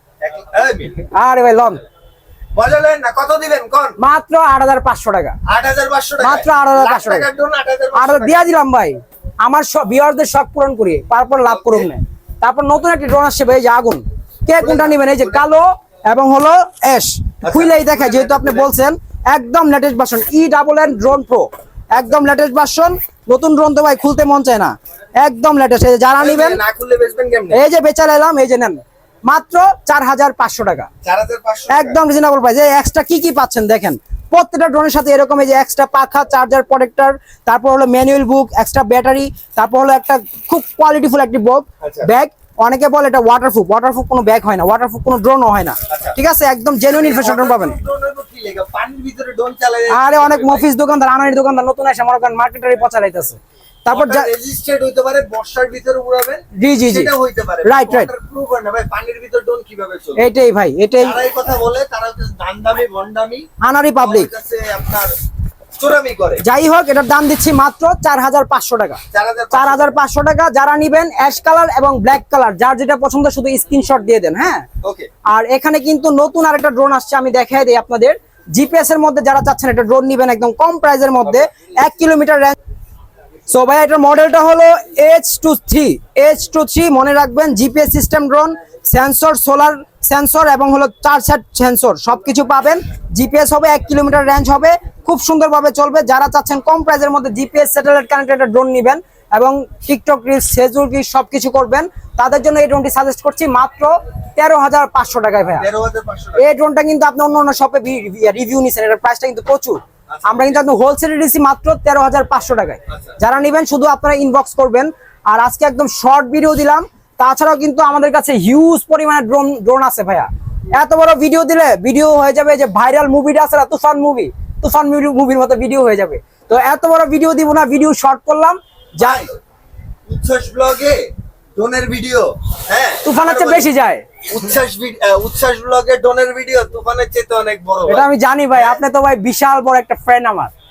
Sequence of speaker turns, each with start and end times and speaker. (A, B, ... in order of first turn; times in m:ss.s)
0:00.2-0:01.0 A
0:01.0-0:01.8 B
0:02.6-0:04.0 A
0:04.0-0:05.4 B
0:05.5-0:08.4 A
0:06.2-0:07.2 B
0:07.9-0:26.6 B
0:11.4-0:11.9 A
0:14.6-0:15.4 A
0:17.4-0:18.7 A
0:26.2-0:27.6 A
0:27.5-0:30.9 B
0:31.0-0:32.0 A
0:31.7-0:47.8 B
0:41.8-0:42.1 A
0:45.9-0:46.2 A
0:46.9-0:50.6 A
0:49.9-0:54.3 B
0:53.9-1:00.2 A
0:56.6-0:57.1 B
0:57.6-0:58.1 B
1:00.2-1:01.2 B
1:01.0-1:03.5 A
1:03.6-1:04.3 B
1:04.0-1:05.1 A
1:05.8-1:06.4 A
1:06.4-1:09.0 B
1:09.1-1:10.0 A
1:09.5-1:14.6 B
1:14.8-1:15.1 A
1:15.3-1:22.6 B
1:23.5-1:45.7 B
1:45.5-1:46.4 A
1:46.4-2:09.2 B
1:50.1-1:50.6 A
1:52.9-1:53.2 A
2:09.0-2:09.4 A
2:10.1-2:13.7 A
2:13.0-2:14.0 B
2:14.2-2:18.8 A
2:17.9-2:20.5 B